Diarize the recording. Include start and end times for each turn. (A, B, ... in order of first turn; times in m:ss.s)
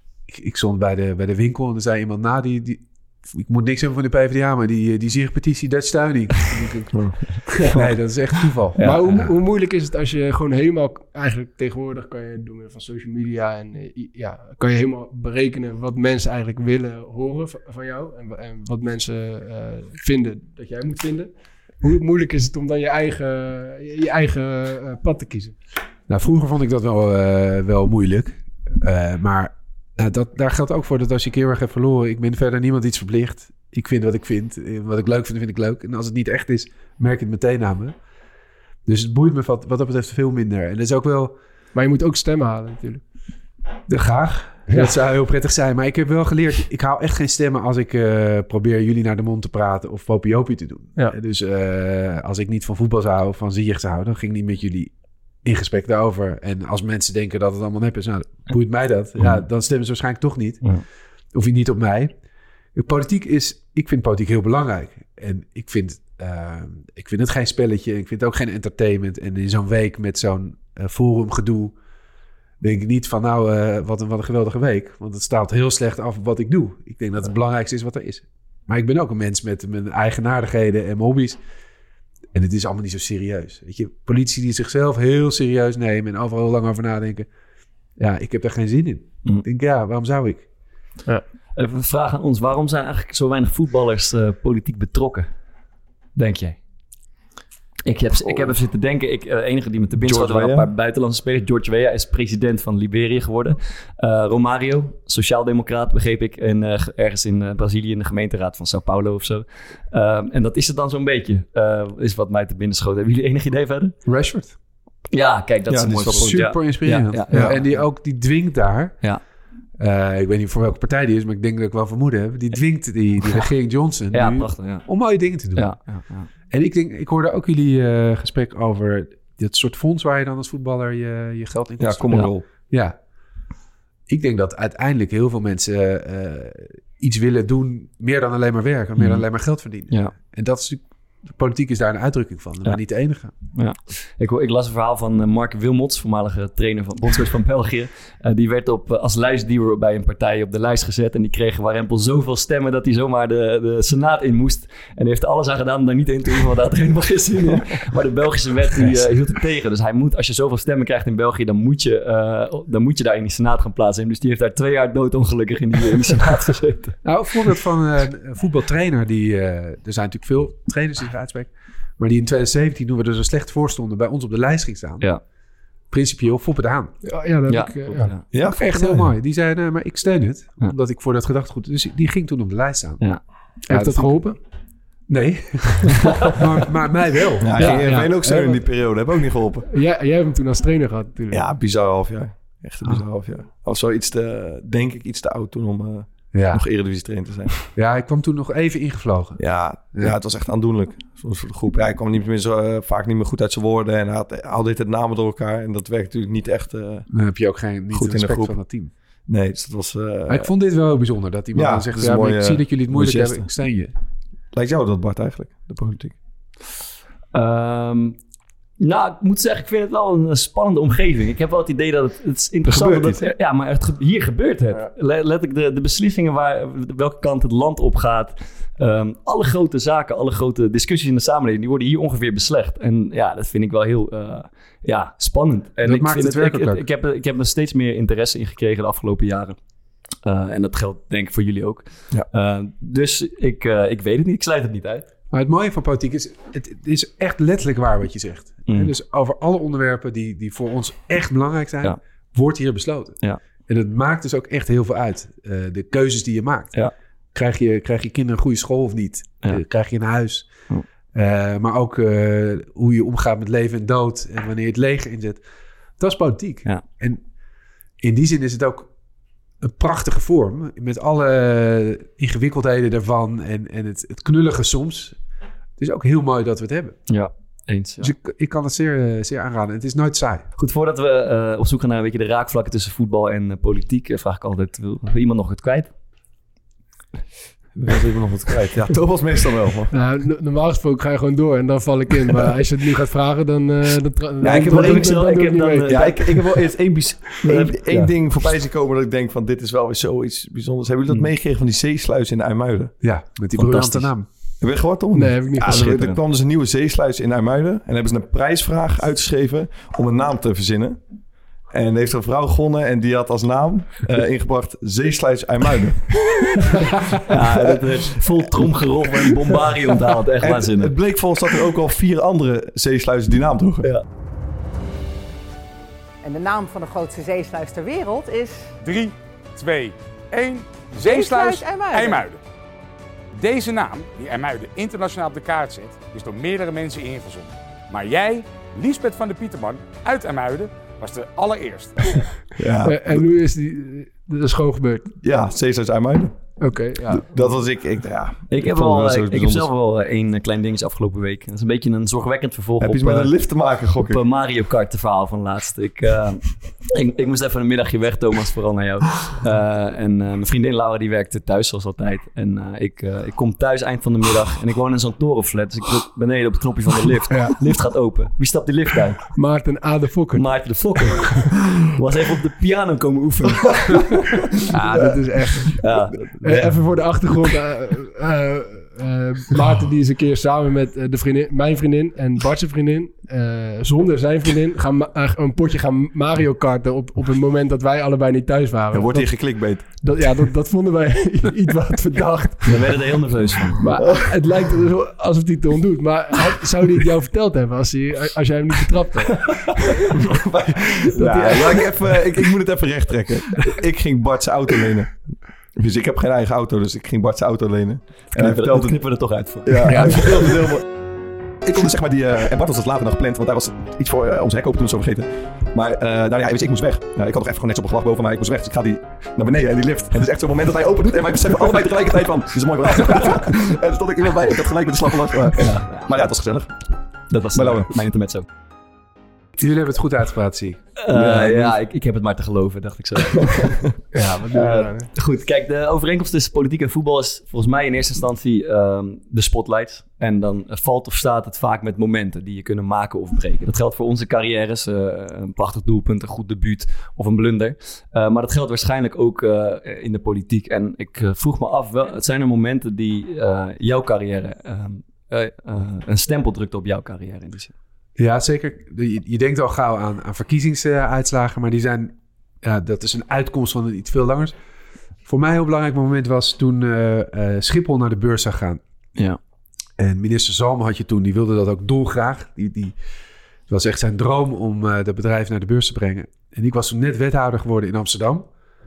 0:00.3-0:09.3 A
0:08.8-0:09.0 B
0:08.8-0:25.6 C
0:26.1-0:38.0 A
0:38.9-0:41.4 A
0:41.7-0:43.0 C
0:43.9-1:00.8 A
1:01.3-1:02.1 A
1:02.7-1:11.8 A
1:12.6-1:21.4 A
1:22.3-1:27.3 A
1:28.0-1:30.5 A
1:31.6-1:35.3 B
1:36.2-1:36.6 B
1:37.9-1:54.0 B
1:38.3-1:38.5 D
1:40.0-1:40.7 D
1:54.0-1:54.6 A
1:55.1-1:57.8 B
1:55.7-1:56.5 D
1:56.1-1:59.0 A
1:59.8-2:05.8 A
2:04.1-2:04.9 B
2:05.5-2:06.3 B
2:06.5-2:13.0 A
2:11.8-2:12.4 D
2:14.1-2:23.3 A
2:19.0-2:19.2 B
2:19.9-2:20.1 B
2:23.5-2:47.0 B
2:47.0-2:55.1 A
2:55.9-2:57.0 A
2:57.0-2:58.1 C
2:57.5-2:58.2 B
2:58.3-2:59.1 D
2:58.5-3:03.2 A
3:03.7-3:04.4 C
3:03.7-3:04.3 A
3:05.1-3:08.5 A
3:07.4-3:09.7 D
3:07.6-3:08.6 C
3:09.7-3:11.4 C
3:11.3-3:17.6 D
3:16.3-3:16.6 A
3:17.7-3:20.1 A
3:19.4-3:27.1 D
3:27.1-3:28.9 A
3:27.9-3:28.6 D
3:29.3-3:30.5 D
3:30.3-3:33.9 A
3:31.5-3:33.5 D
3:34.5-3:36.2 D
3:37.3-3:38.2 B
3:38.8-3:59.6 B
3:42.7-3:43.3 D
3:55.8-3:56.8 A
4:00.2-4:05.1 B
4:05.3-4:16.8 A
4:08.7-4:08.9 B
4:17.3-4:20.5 A
4:21.1-4:25.4 A
4:26.0-4:27.2 A
4:28.0-4:28.9 A
4:29.6-4:35.2 A
4:35.8-4:37.0 A
4:37.1-4:38.1 B
4:38.0-4:40.5 A
4:40.6-4:45.9 B
4:47.8-4:49.9 D
4:49.9-4:56.6 C
4:54.4-4:55.1 D
4:54.4-4:55.0 A
4:54.5-4:56.2 B
4:55.9-5:03.0 D
5:03.0-5:04.3 A
5:03.6-5:04.1 B
5:04.6-5:11.0 D
5:05.1-5:06.0 C
5:05.6-5:06.2 B
5:11.7-5:17.4 D
5:17.3-5:20.9 B
5:20.4-5:23.9 D
5:26.2-5:28.7 E
5:28.8-5:32.4 F
5:31.0-5:32.2 E
5:33.3-5:42.2 F
5:42.6-5:43.2 D
5:42.8-5:45.1 C
5:45.2-5:49.7 D
5:46.6-5:47.6 C
5:48.5-5:53.3 B
5:52.8-5:54.2 D
5:54.0-6:09.3 B
6:07.3-6:07.6 C
6:09.3-6:11.3 C
6:10.3-6:14.0 B
6:14.7-6:33.0 C
6:15.1-6:15.8 D
6:15.8-6:16.7 B
6:28.9-6:29.8 D
6:32.6-6:33.8 B
6:33.8-6:39.9 C
6:40.3-6:50.9 D
6:41.1-6:42.5 C
6:48.3-6:50.5 B
6:49.9-6:50.2 C
6:51.6-7:06.8 D
7:05.6-7:06.1 B
7:07.3-7:08.5 B
7:07.6-7:07.9 D
7:09.6-7:10.8 A
7:11.0-7:13.9 B
7:11.1-7:11.8 D
7:14.1-7:15.1 C
7:14.5-7:37.7 B
7:38.2-7:44.6 A
7:45.2-7:48.8 A
7:50.0-7:53.0 A
7:53.7-7:58.5 A